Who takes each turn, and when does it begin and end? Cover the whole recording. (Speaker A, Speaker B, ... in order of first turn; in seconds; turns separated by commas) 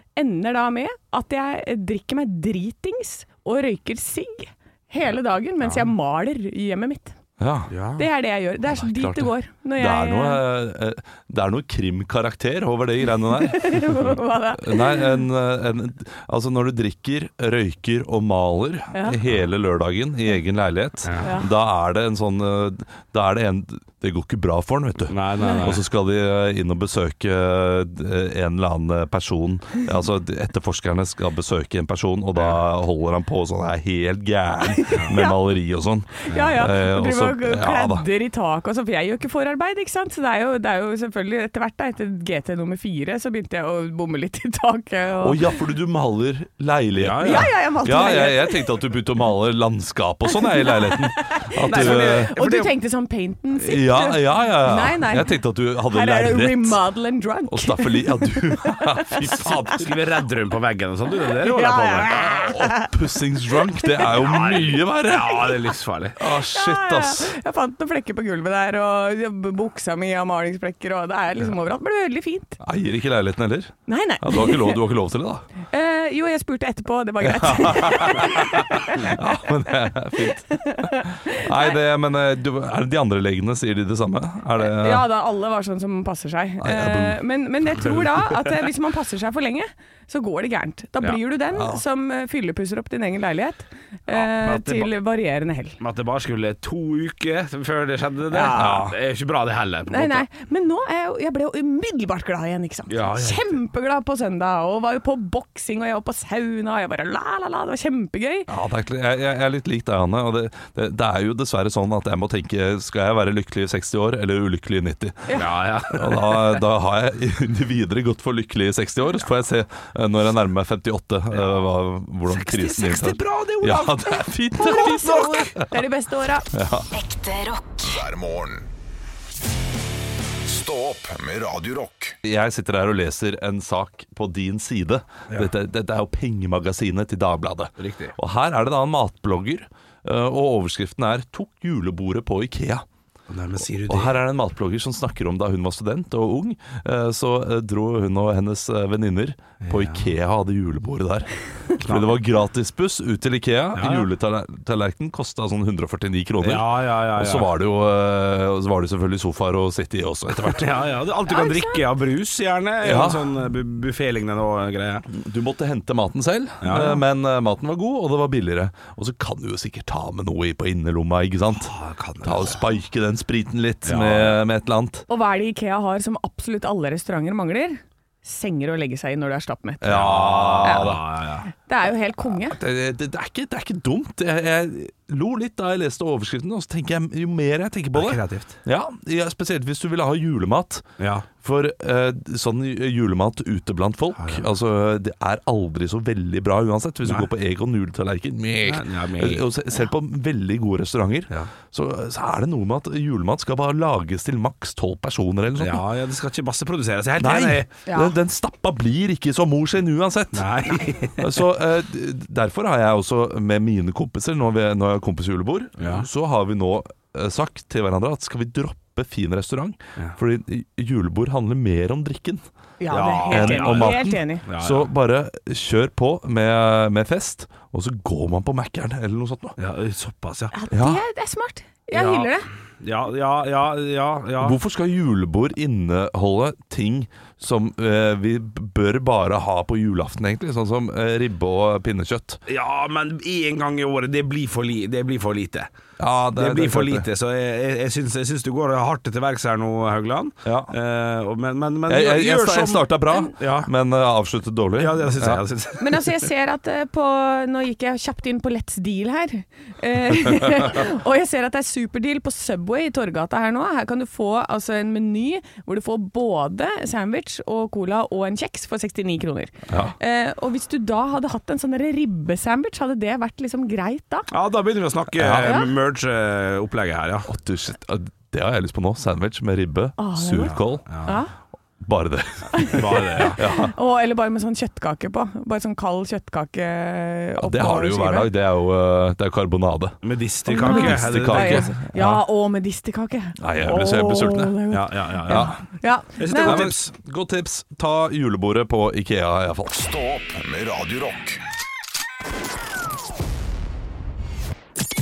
Speaker A: 0.2-7.2, Speaker B: 7.4-7.8, Speaker C: 7.7-8.1, Speaker A: 8.0-10.4, Speaker B: 8.7-38.1, Speaker A: 13.2-15.2, Speaker A: 18.9-19.2, Speaker C: 21.1-21.3, Speaker A: 21.2-21.5, Speaker C: 25.1-25.8, Speaker A: 25.4-25.7, Speaker A: 34.7-35.4, Speaker A: 36.2-45.5, Speaker B: 45.2-52.3, Speaker C: 47.0-47.5, Speaker A: 47.2-48.8, Speaker A: 50.3-59.7, Speaker C: 51.6-52.7, Speaker B: 53.6-56.8, Speaker B: 57.5-60.0, Speaker C: 59.7-62.3, Speaker A: 61.4-62.9, Speaker B: 62.2-67.3, Speaker A: 63.5-64.2, Speaker C: 64.2-66.2, Speaker A: 66.3-72.6, Speaker B: 72.6-75.5, Speaker A: 73.9-74.8, Speaker A: 75.7-79.5, Speaker B: 77.2-85.1, Speaker A: 80.2-81.8, Speaker A: 84.6-95.8, Speaker B: 86.6-87.2, Speaker B: 91.5-91.8, Speaker C: 94.1-94.9, Speaker C: 95.8-100.3, Speaker A: 98.3-98.7, Speaker B: 98.5-99.0, Speaker A: 99.9-108.5, Speaker C: 102.9-103.5, Speaker B: 108.5-125.8, Speaker C: 115.3-116.6, Speaker C: 121.3-121.7, Speaker C: 122.3-125.5, Speaker A: 124.5-126.5, Speaker B: 126.5-126.9, Speaker D: 126.9-128.7, Speaker D: 130.4-132.2, Speaker B: 132.2-142.8, Speaker C: 137.8-138.2, Speaker C: 143.3-144.2, Speaker B: 143.8-160.7, Speaker C: 149.6-150.1, Speaker C: 151.8-152.2, Speaker C: 153.8-154.1, Speaker C: 156.4-157.5, Speaker C: 160.3-165.1, Speaker A: 161.3-161.8, Speaker B: 162.8-163.3, Speaker B: 165.1-175.1, Speaker C: 166.6-167.0, Speaker C: 171.5-172.6, Speaker C: 173.8-174.4, Speaker A: 175.1-179.9, Speaker B: 179.8-181.0, Speaker C: 179.8-181.5, Speaker A: 180.6-181.0, Speaker A: 181.6-182.6, Speaker B: 182.4-190.9, Speaker C: 187.9-188.6, Speaker C: 191.0-191.3, Speaker B: 191.4-205.8, Speaker C: 194.2-194.5, Speaker C: 198.7-199.5, Speaker C: 205.6-207.7, Speaker B: 207.2-210.6, Speaker A: 207.9-208.2, Speaker C: 210.3-211.4, Speaker B: 211.2-222.4, Speaker C: 215.8-216.1, Speaker A: 222.8-224.5, Speaker C: 222.9-224.9, Speaker B: 223.3-229.6, Speaker C: 229.6-230.5, Speaker A: 230.5-232.5, Speaker B: 230.7-231.0, Speaker C: 231.9-234.6, Speaker B: 234.4-242.4, Speaker C: 242.5-245.7, Speaker B: 246.0-247.1, Speaker C: 246.3-253.7, Speaker B: 250.5-250.7, Speaker B: 251.9-255.4, Speaker C: 254.8-256.0, Speaker A: 255.8-274.3, Speaker B: 269.7-269.9, Speaker C: 274.3-277.3, Speaker B: 275.2-275.6, Speaker A: 275.4-275.7, Speaker B: 277.3-280.9, Speaker A: 280.0-281.3, Speaker C: 280.9-281.2, Speaker B: 281.8-283.8, Speaker A: 282.5-288.3, Speaker C: 282.7-283.4, Speaker B: 287.4-290.0, Speaker C: 290.0-291.7, Speaker A: 290.5-296.7, Speaker B: 290.6-292.2, Speaker B: 293.4-294.6, Speaker C: 294.7-295.6, Speaker B: 295.3-295.6, Speaker C: 296.2-296.9, Speaker B: 296.4-299.8, Speaker D: 299.7-301.4